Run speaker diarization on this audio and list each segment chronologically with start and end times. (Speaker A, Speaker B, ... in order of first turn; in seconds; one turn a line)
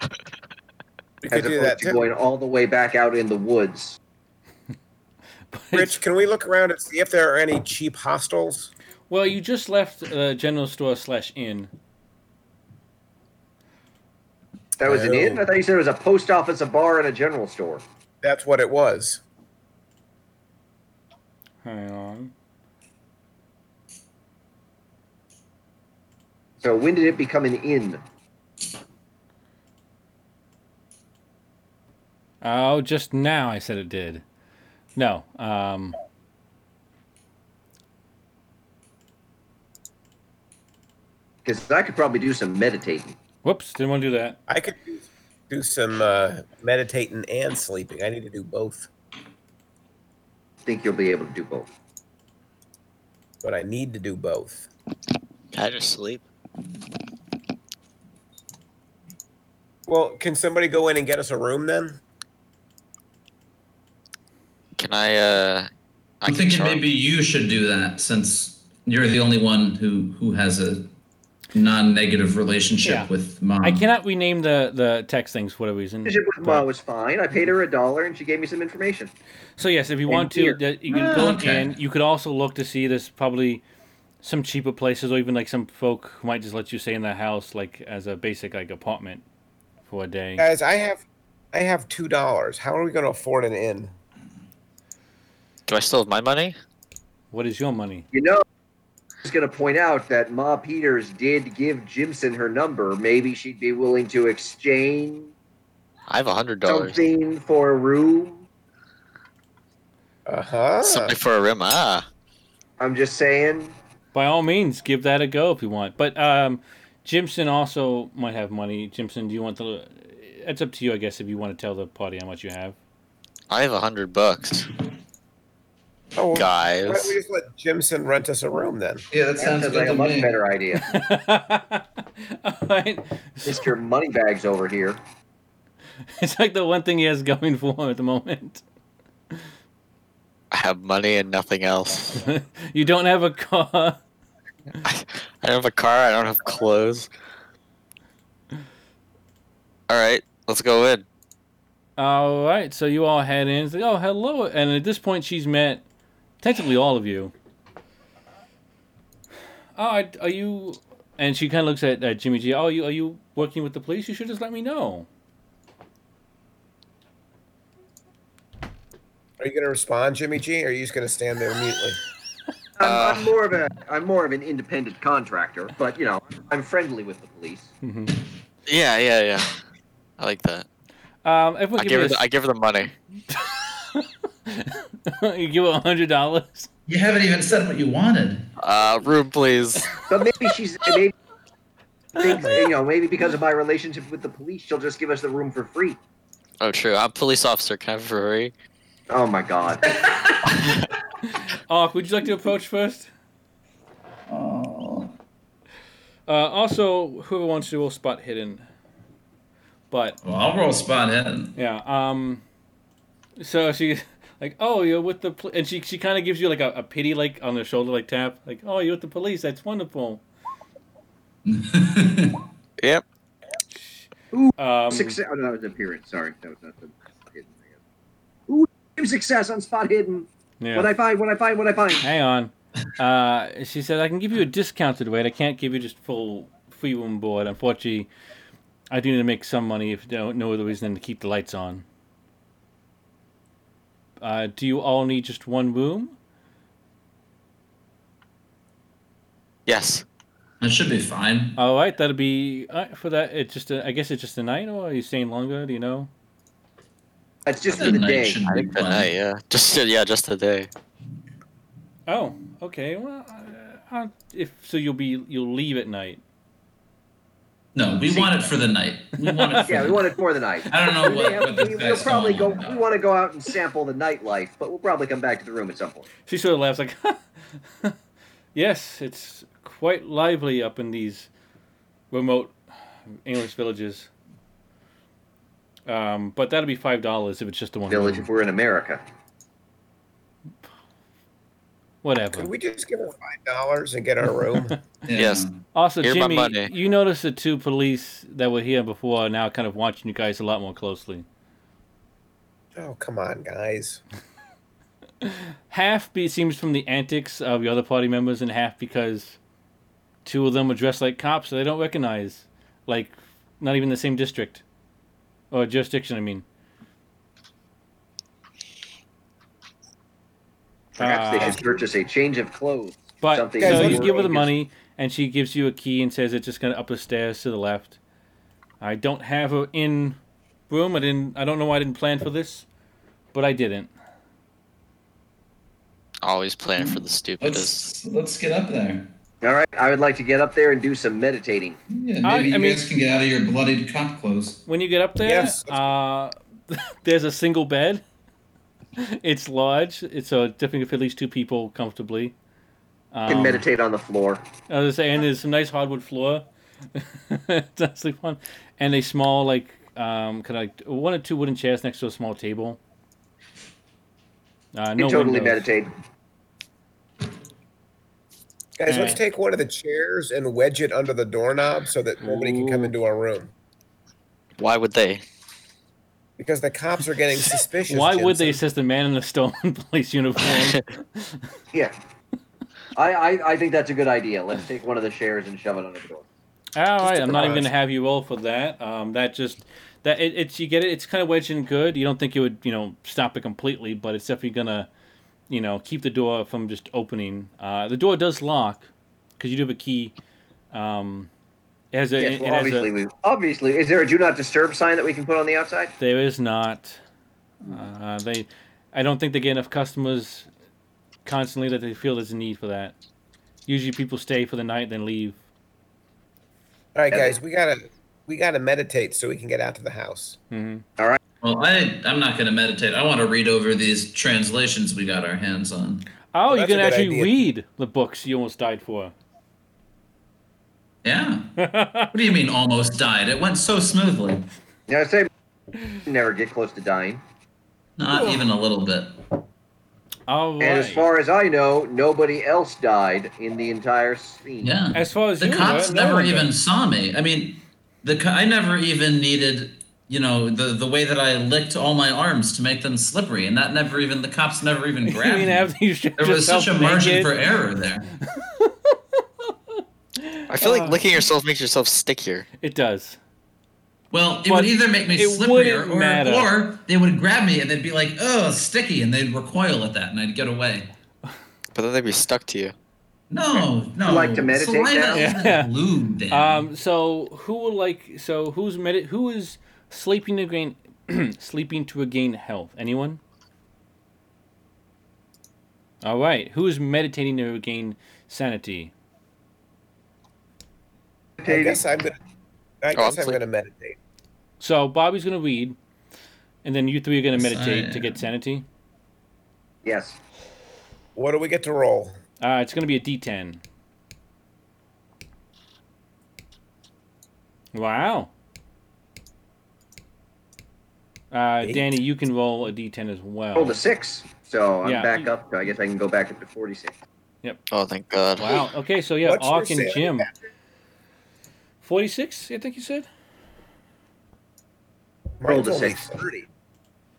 Speaker A: 1.2-2.0
Speaker B: 1.3-4.0
Speaker C: 5.5-6.0
Speaker A: 5.7-8.7
Speaker C: 9.1-11.7
Speaker B: 14.8-17.8
Speaker A: 14.8-15.4
Speaker A: 18.2-19.2
Speaker C: 21.6-22.3
Speaker B: 26.6-28.0
Speaker C: 32.4-34.2
Speaker C: 35.0-35.9
Speaker B: 41.4-43.1
Speaker C: 43.4-44.4
Speaker A: 44.5-48.9
Speaker B: 50.6-51.7
Speaker A: 53.4-54.7
Speaker D: 55.5-56.2
Speaker A: 59.9-62.0
Speaker D: 64.8-65.7
Speaker D: 66.2-66.8
Speaker E: 66.2-70.9
Speaker E: 71.5-73.8
Speaker C: 72.8-73.1
Speaker C: 73.6-76.7
Speaker B: 76.0-79.1
Speaker C: 79.6-83.6
Speaker B: 80.1-80.6
Speaker E: 80.9-81.7
Speaker C: 84.2-89.2
Speaker C: 89.9-90.5
Speaker A: 90.4-93.9
Speaker D: 95.7-96.5
Speaker C: 97.3-98.1
Speaker B: 98.1-98.4
Speaker B: 99.2-105.3
Speaker D: 106.1-107.0
Speaker B: 106.7-108.4
Speaker A: 110.2-111.2
Speaker D: 110.8-112.0
Speaker B: 112.8-113.7
Speaker C: 114.1-122.8
Speaker D: 123.5-124.7
Speaker A: 126.1-129.0
Speaker D: 126.3-127.1
Speaker E: 129.1-130.4
Speaker B: 129.4-130.9
Speaker C: 130.8-133.7
Speaker B: 133.4-135.0
Speaker C: 136.2-138.6
Speaker D: 140.5-142.2
Speaker C: 142.2-144.0
Speaker D: 144.8-147.1
Speaker D: 149.9-151.0
Speaker C: 152.0-155.8
Speaker C: 156.4-157.3
Speaker C: 159.8-165.1
Speaker A: 169.4-172.0
Speaker B: 172.8-177.7
Speaker D: 172.8-173.3
Speaker C: 177.8-178.2
Speaker D: 178.7-179.5
Speaker D: 180.2-180.7
Speaker C: 181.2-182.2
Speaker D: 181.8-182.9
Speaker C: 183.3-186.7
Speaker E: 186.9-188.5
Speaker D: 188.6-190.0
Speaker B: 190.1-191.1
Speaker B: 192.2-196.0
Speaker A: 192.2-192.7
Speaker D: 196.6-198.5
Speaker B: 199.1-200.0
Speaker C: 201.3-203.1
Speaker E: 204.3-205.1
Speaker C: 206.3-208.6
Speaker C: 209.9-210.2
Speaker E: 210.2-211.5
Speaker C: 211.6-212.4
Speaker C: 213.4-220.2
Speaker E: 221.4-222.4
Speaker C: 223.8-225.2
Speaker B: 224.3-227.6
Speaker B: 228.5-232.1
Speaker C: 230.6-230.9
Speaker C: 232.0-238.1
Speaker C: 238.9-241.8
Speaker C: 244.2-246.2
Speaker D: 249.7-250.0
Speaker E: 250.6-251.6
Speaker C: 251.6-256.1
Speaker B: 257.4-258.4
Speaker E: 257.7-259.1
Speaker D: 257.8-260.7
Speaker C: 262.1-266.2
Speaker E: 267.7-270.2
Speaker B: 268.1-268.5
Speaker C: 269.2-269.9
Speaker B: 269.6-276.1
Speaker E: 270.7-272.8
Speaker C: 276.2-277.9
Speaker C: 278.5-281.3
Speaker C: 282.1-282.5
Speaker C: 283.2-284.1
Speaker C: 285.9-288.3
Speaker B: 287.9-289.0
Speaker C: 292.0-292.5
Speaker A: 292.3-294.8
Speaker E: 295.0-295.6
Speaker D: 295.1-295.5
Speaker C: 295.7-301.2
Speaker D: 296.0-296.7
Speaker A: 302.7-304.0
Speaker C: 305.2-309.4
Speaker C: 310.2-314.6
Speaker C: 315.5-316.4
Speaker C: 321.0-321.6
Speaker B: 321.0-324.5
Speaker C: 323.2-328.0
Speaker A: 323.6-324.4
Speaker C: 328.8-330.2
Speaker C: 330.7-332.6
Speaker C: 333.3-333.9
Speaker D: 336.2-337.9
Speaker E: 336.8-339.1
Speaker B: 339.4-341.8
Speaker E: 341.9-344.6
Speaker C: 342.2-342.8
Speaker C: 344.7-348.0
Speaker A: 345.2-345.9
Speaker C: 349.0-352.3
Speaker C: 353.1-353.6
Speaker B: 353.3-354.4
Speaker C: 354.7-362.8
Speaker C: 364.7-365.6
Speaker B: 365.0-365.9
Speaker A: 368.8-373.5
Speaker C: 368.9-369.2
Speaker C: 372.2-372.9
Speaker D: 374.6-375.2
Speaker A: 376.4-378.6
Speaker C: 377.8-381.4
Speaker D: 380.5-380.8
Speaker B: 382.9-386.2
Speaker C: 386.8-394.9
Speaker D: 387.2-387.5
Speaker A: 387.3-387.7
Speaker C: 395.5-398.9
Speaker C: 399.4-400.1
Speaker C: 400.7-401.3
Speaker C: 401.9-402.9
Speaker B: 402.2-405.9
Speaker C: 406.0-407.0
Speaker C: 407.7-410.5
Speaker C: 411.2-412.9
Speaker C: 413.7-415.4
Speaker A: 416.9-420.4
Speaker B: 417.1-417.3
Speaker C: 420.5-420.8
Speaker E: 421.4-426.1
Speaker C: 426.3-429.1
Speaker A: 426.5-427.4
Speaker E: 431.0-431.6
Speaker C: 431.6-432.1
Speaker E: 432.1-434.4
Speaker B: 434.9-435.3
Speaker B: 436.0-437.2
Speaker E: 438.0-439.2
Speaker C: 438.1-438.4
Speaker C: 440.3-441.1
Speaker B: 440.6-444.7
Speaker E: 444.6-458.1
Speaker C: 444.9-446.5
Speaker C: 455.0-457.3
Speaker C: 458.3-459.0
Speaker C: 459.8-461.0
Speaker D: 460.5-462.4
Speaker C: 462.6-463.2
Speaker E: 464.1-470.9
Speaker C: 464.5-466.5
Speaker D: 471.7-472.7
Speaker E: 473.3-476.7
Speaker B: 474.0-475.3
Speaker C: 475.1-475.7
Speaker C: 476.3-483.2
Speaker C: 486.0-488.9
Speaker B: 491.4-491.8
Speaker A: 491.4-492.2
Speaker A: 492.8-494.0
Speaker D: 492.9-493.4
Speaker C: 494.6-495.8
Speaker C: 496.6-498.6
Speaker E: 497.3-498.2
Speaker B: 499.8-500.2
Speaker A: 501.1-502.2
Speaker C: 502.4-503.6
Speaker C: 507.7-508.3
Speaker C: 511.3-513.8
Speaker A: 511.6-511.9
Speaker B: 513.5-516.9
Speaker C: 514.8-515.3
Speaker D: 517.7-518.7
Speaker C: 518.4-520.3
Speaker A: 519.2-520.4
Speaker C: 521.8-523.1
Speaker A: 525.4-526.5
Speaker B: 525.4-526.2